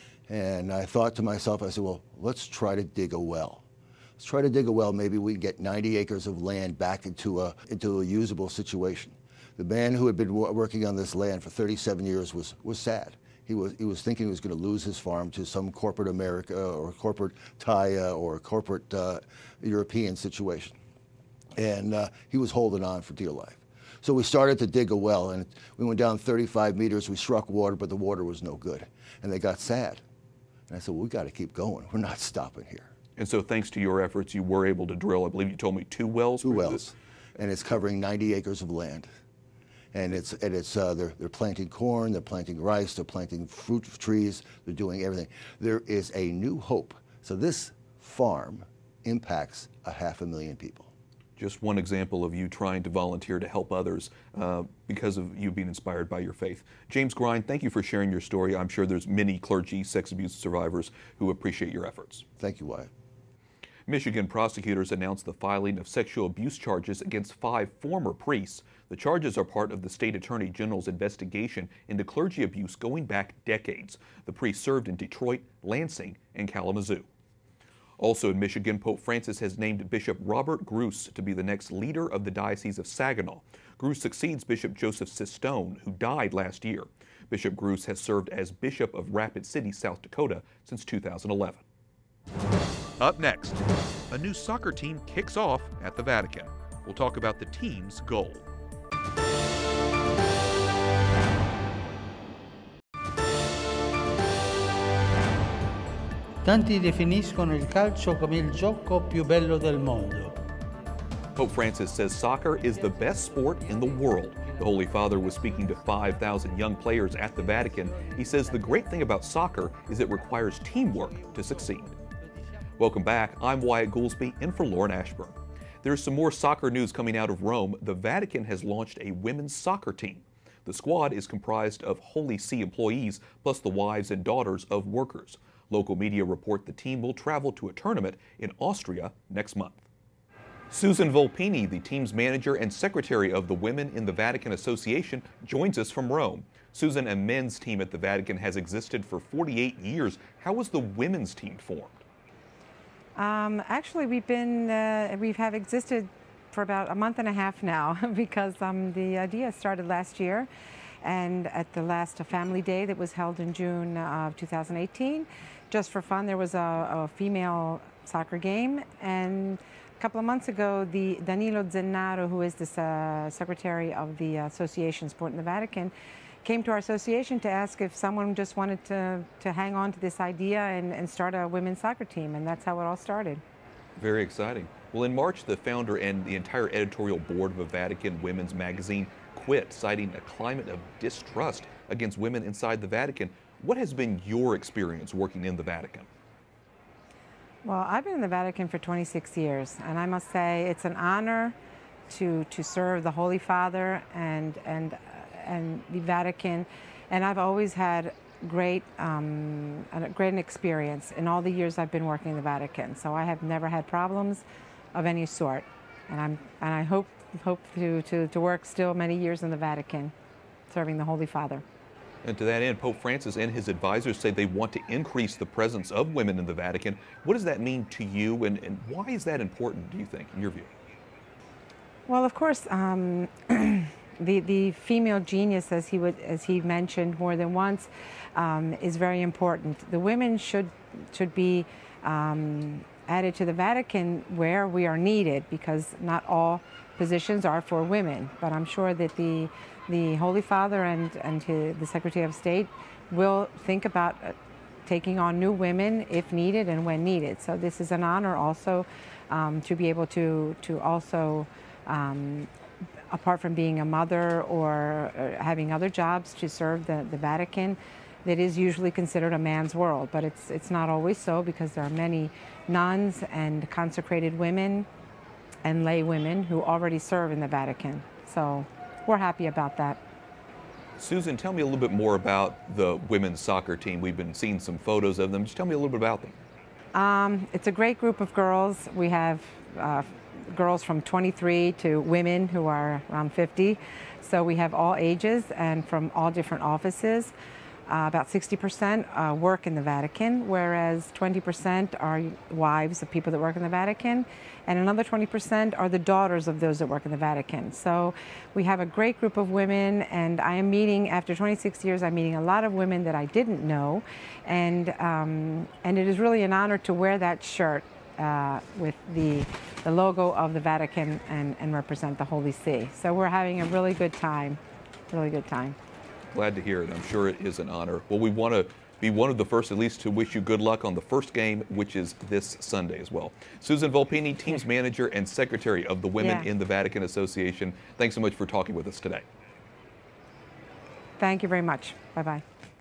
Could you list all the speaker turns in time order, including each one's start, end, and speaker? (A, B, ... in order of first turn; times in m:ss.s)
0:00.3-0:03.6 A
0:04.2-0:20.8 A
0:21.6-0:30.0 A
0:30.7-0:32.9 A
0:33.2-0:36.9 B
0:36.4-0:39.1 A
0:39.9-0:50.9 A
0:51.4-1:02.2 B
1:02.4-1:02.9 A
1:03.9-1:17.1 B
1:18.0-1:31.6 B
1:33.0-1:38.5 B
1:46.4-1:50.4 C
1:51.3-2:02.0 B
2:02.8-2:19.8 B
2:20.7-2:32.0 B
2:33.2-2:40.5 D
2:41.0-2:55.9 D
2:56.4-3:03.4 D
3:04.0-3:16.1 B
3:17.6-3:21.6 D
3:22.1-3:40.1 D
3:40.7-3:41.6 D
3:42.2-3:50.7 B
3:52.1-4:22.5 D
4:23.1-4:34.9 D
4:35.6-4:40.0 D
4:41.0-4:46.4 B
4:46.9-4:57.3 D
4:57.9-5:24.6 D
5:25.1-5:25.8 D
5:26.3-5:39.2 B
5:36.2-5:36.5 D
5:41.2-5:42.4 D